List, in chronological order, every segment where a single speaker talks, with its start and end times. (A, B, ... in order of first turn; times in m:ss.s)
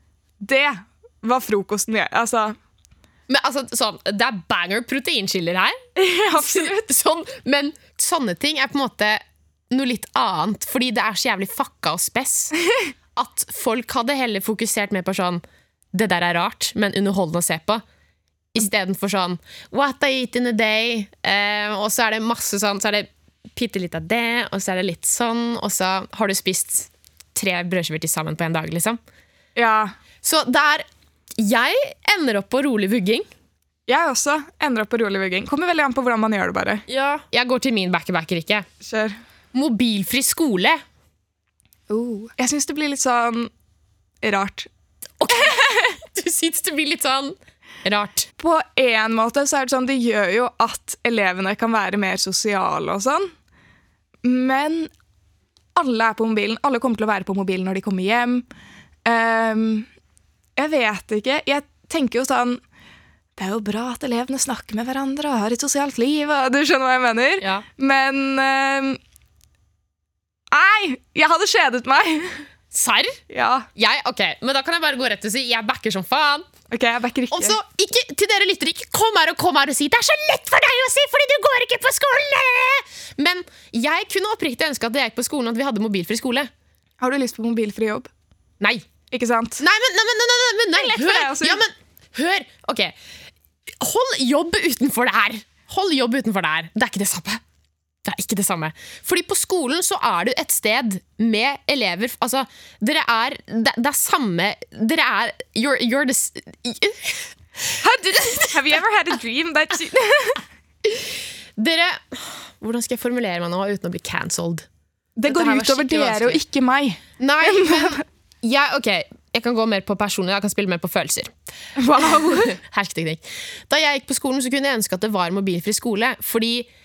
0:00.4-0:02.6 A
0:03.3-0:05.8 B
0:06.0-0:06.9 A
0:06.3-0:12.6 B
0:13.2-0:15.4 B
0:15.9-0:17.8 B
0:18.5-0:29.0 B
0:29.6-0:29.9 A
0:30.2-0:30.9 B
0:31.4-0:33.3 B
0:33.9-0:36.8 A
0:36.9-0:38.7 B
0:38.8-0:39.2 A
0:39.5-0:40.8 B
0:41.9-0:43.5 A
0:44.2-0:44.7 A
0:45.2-0:48.3 B
0:45.3-0:46.0 A
0:48.4-0:53.3 A
0:54.2-0:54.9 A
0:55.8-0:58.5 A
0:59.0-0:59.9 A
1:00.6-1:02.6 A
1:03.4-1:09.0 A
1:10.5-1:12.4 A
1:12.7-1:13.2 B
1:13.3-1:13.7 A
1:13.8-1:16.5 B
1:16.7-1:17.6 A
1:17.3-1:26.5 B
1:27.0-1:28.1 A
1:28.6-1:28.9 B
1:29.1-1:29.6 A
1:29.6-1:33.0 B
1:30.7-1:31.6 A
1:33.8-1:37.4 B
1:38.0-1:47.3 B
1:47.8-1:50.4 A
1:50.8-1:54.7 B
1:55.2-1:58.0 A
1:55.3-1:56.4 B
1:57.2-2:01.3 B
2:01.8-2:02.6 A
2:01.9-2:06.7 B